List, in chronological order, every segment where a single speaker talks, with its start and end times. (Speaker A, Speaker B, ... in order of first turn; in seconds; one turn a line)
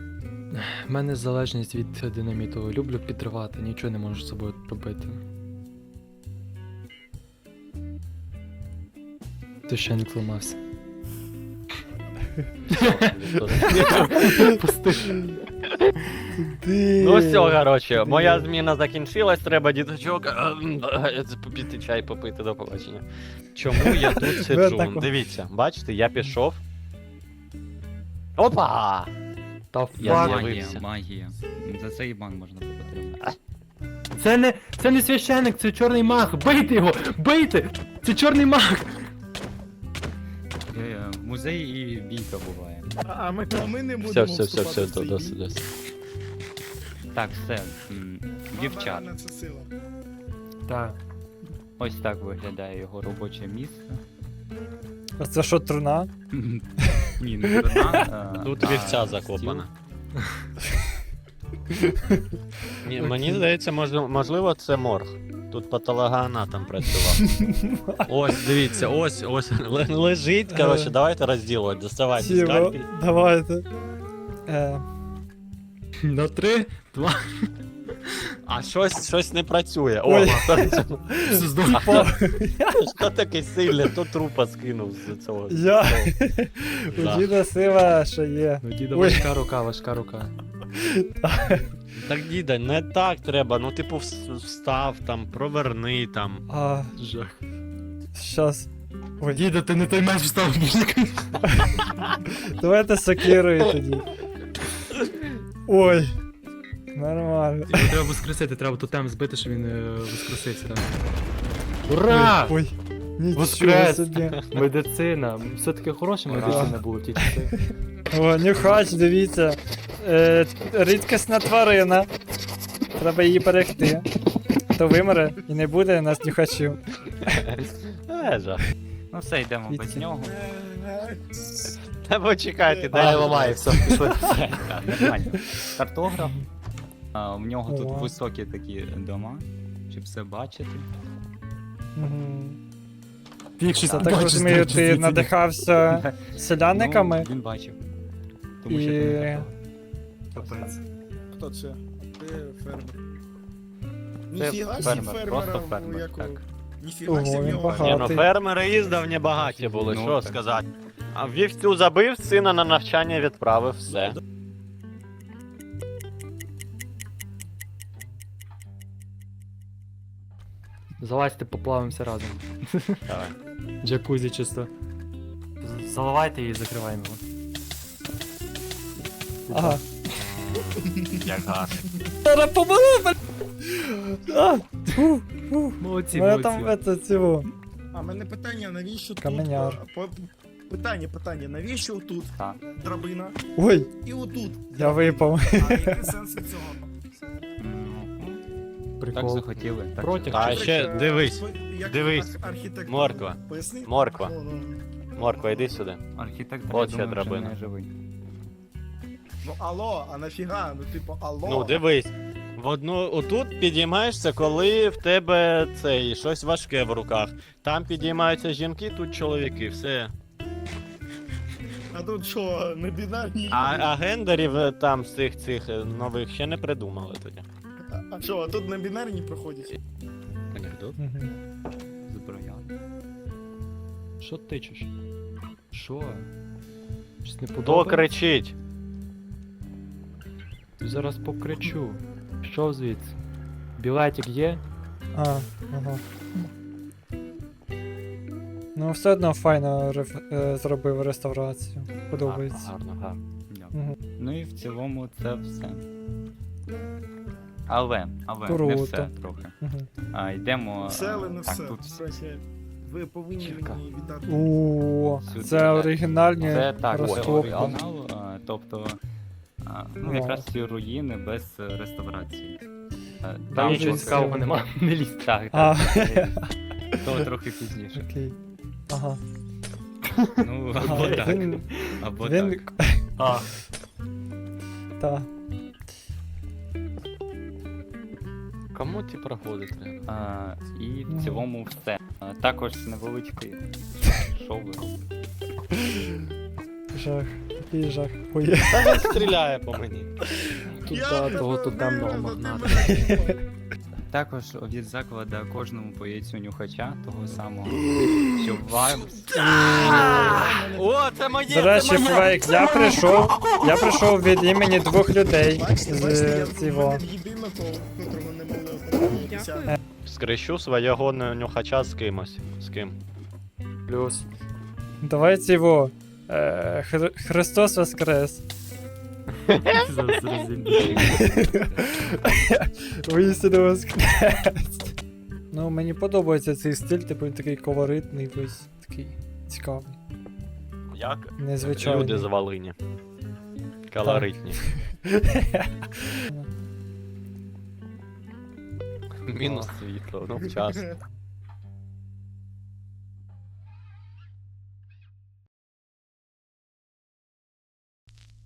Speaker A: 0.5-5.2
Speaker A: 9.7-10.6
Speaker B: 12.7-14.5
Speaker A: 12.7-15.3
Speaker C: 13.8-14.6
Speaker C: 16.4-18.5
Speaker B: 17.0-26.6
Speaker C: 23.8-25.1
Speaker B: 28.4-29.1
Speaker A: 29.7-30.5
Speaker D: 30.0-33.2
Speaker B: 30.0-30.8
Speaker A: 34.1-39.0
Speaker D: 40.7-42.9
Speaker E: 43.0-45.4
Speaker B: 44.0-45.6
Speaker D: 47.1-49.1
Speaker E: 48.5-49.7
Speaker A: 50.7-51.0
Speaker D: 51.8-54.0
Speaker C: 55.2-56.1
Speaker D: 56.3-59.7
Speaker C: 56.8-58.1
Speaker B: 58.4-59.7
Speaker A: 60.2-60.5
Speaker C: 61.8-62.2
Speaker B: 62.8-67.4
Speaker C: 63.0-63.4
Speaker C: 67.4-68.1
Speaker B: 68.0-72.8
Speaker C: 70.5-70.9
Speaker C: 72.2-73.7
Speaker C: 74.5-74.8
Speaker A: 76.0-77.5
Speaker B: 78.5-81.0
Speaker C: 80.0-82.9
Speaker A: 81.2-82.1
Speaker B: 81.7-82.1
Speaker B: 82.7-86.2
Speaker C: 85.5-89.3
Speaker B: 86.9-87.3
Speaker A: 88.6-90.3
Speaker C: 90.8-91.7
Speaker B: 92.0-96.5
Speaker C: 96.5-96.9
Speaker A: 97.0-97.4
Speaker C: 98.2-98.7
Speaker C: 99.2-99.5
Speaker A: 99.3-101.6
Speaker C: 101.5-101.8
Speaker C: 102.4-104.1
Speaker C: 105.7-106.1
Speaker C: 106.9-108.0
Speaker A: 107.7-110.9
Speaker A: 111.9-112.6
Speaker C: 112.1-114.4
Speaker A: 113.3-117.7
Speaker B: 116.3-116.7
Speaker C: 116.4-117.3
Speaker C: 118.1-122.1
Speaker C: 123.0-124.1
Speaker C: 124.7-127.5
Speaker B: 127.3-128.6
Speaker D: 129.1-130.4
Speaker C: 129.7-130.1
Speaker E: 130.2-131.2
Speaker B: 132.0-134.3
Speaker E: 132.6-133.6
Speaker A: 132.9-134.7
Speaker D: 134.3-136.4
Speaker D: 137.1-140.9
Speaker C: 137.7-138.1
Speaker C: 142.0-142.6
Speaker A: 143.6-145.3
Speaker D: 143.7-144.6
Speaker C: 143.9-147.3
Speaker D: 145.9-147.8
Speaker D: 148.6-149.6
Speaker C: 148.7-149.5
Speaker A: 150.4-150.8
Speaker D: 150.4-150.7
Speaker E: 151.3-153.0
Speaker E: 154.3-158.3
Speaker D: 154.3-156.4
Speaker C: 157.1-158.3
Speaker B: 157.8-164.2
Speaker D: 159.3-160.4
Speaker A: 171.0-173.0
Speaker B: 173.1-173.3
Speaker A: 173.8-174.7
Speaker A: 175.6-177.2
Speaker A: 179.5-180.2
Speaker C: 179.5-179.8
Speaker B: 180.2-181.8
Speaker E: 180.9-181.3
Speaker C: 182.2-187.5
Speaker A: 185.8-186.8
Speaker E: 187.9-193.4
Speaker C: 189.2-189.8
Speaker D: 192.3-192.6
Speaker C: 193.6-193.9
Speaker E: 194.0-197.0
Speaker C: 194.8-196.1
Speaker D: 197.6-198.4
Speaker A: 199.0-200.8
Speaker D: 199.1-200.8
Speaker B: 200.3-202.3
Speaker E: 200.3-205.8
Speaker B: 202.9-204.3
Speaker B: 205.2-206.0
Speaker D: 206.2-207.9
Speaker B: 206.7-207.6
Speaker E: 209.4-211.8
Speaker B: 211.4-220.1
Speaker E: 221.9-223.9
Speaker B: 223.5-227.4
Speaker E: 228.1-229.7
Speaker B: 230.5-231.0
Speaker C: 231.0-231.3
Speaker D: 232.1-232.7
Speaker A: 234.2-234.9
Speaker A: 235.7-236.3
Speaker A: 237.2-238.1
Speaker B: 237.6-238.5
Speaker A: 240.8-243.2
Speaker A: 243.8-244.6
Speaker C: 245.2-246.0
Speaker C: 248.8-252.7
Speaker B: 252.2-253.2
Speaker D: 253.5-255.9
Speaker D: 257.7-259.6
Speaker C: 258.5-259.9
Speaker D: 260.1-262.0
Speaker E: 260.8-264.5
Speaker B: 263.4-263.8
Speaker C: 264.3-267.8
Speaker D: 265.2-269.0
Speaker B: 266.9-267.8
Speaker D: 269.6-272.6
Speaker C: 270.0-270.5
Speaker D: 273.2-274.4
Speaker C: 273.5-274.5
Speaker A: 273.5-275.3
Speaker D: 275.0-276.4
Speaker C: 275.5-277.0
Speaker D: 277.0-278.1
Speaker C: 277.9-278.4
Speaker C: 278.9-279.2
Speaker D: 280.4-282.7
Speaker C: 280.8-283.1
Speaker B: 280.8-281.4
Speaker B: 283.2-283.5
Speaker C: 285.0-285.3
Speaker B: 288.7-290.1
Speaker D: 290.1-295.1
Speaker C: 291.1-291.5
Speaker C: 296.9-299.1
Speaker B: 298.7-300.2
Speaker A: 300.8-302.9
Speaker E: 300.9-303.4
Speaker C: 302.9-303.3
Speaker D: 304.1-309.3
Speaker B: 309.3-313.5
Speaker C: 309.4-310.3
Speaker E: 309.6-310.9
Speaker C: 311.5-317.0
Speaker E: 315.5-319.7
Speaker B: 320.1-323.0
Speaker A: 323.9-324.2
Speaker C: 325.0-328.4
Speaker A: 329.5-331.3
Speaker D: 330.3-332.1
Speaker C: 331.0-334.9
Speaker C: 335.5-340.0
Speaker B: 340.9-342.8
Speaker C: 341.4-342.3
Speaker B: 343.9-344.6
Speaker C: 344.0-346.5
Speaker B: 349.3-351.0
Speaker E: 350.5-350.9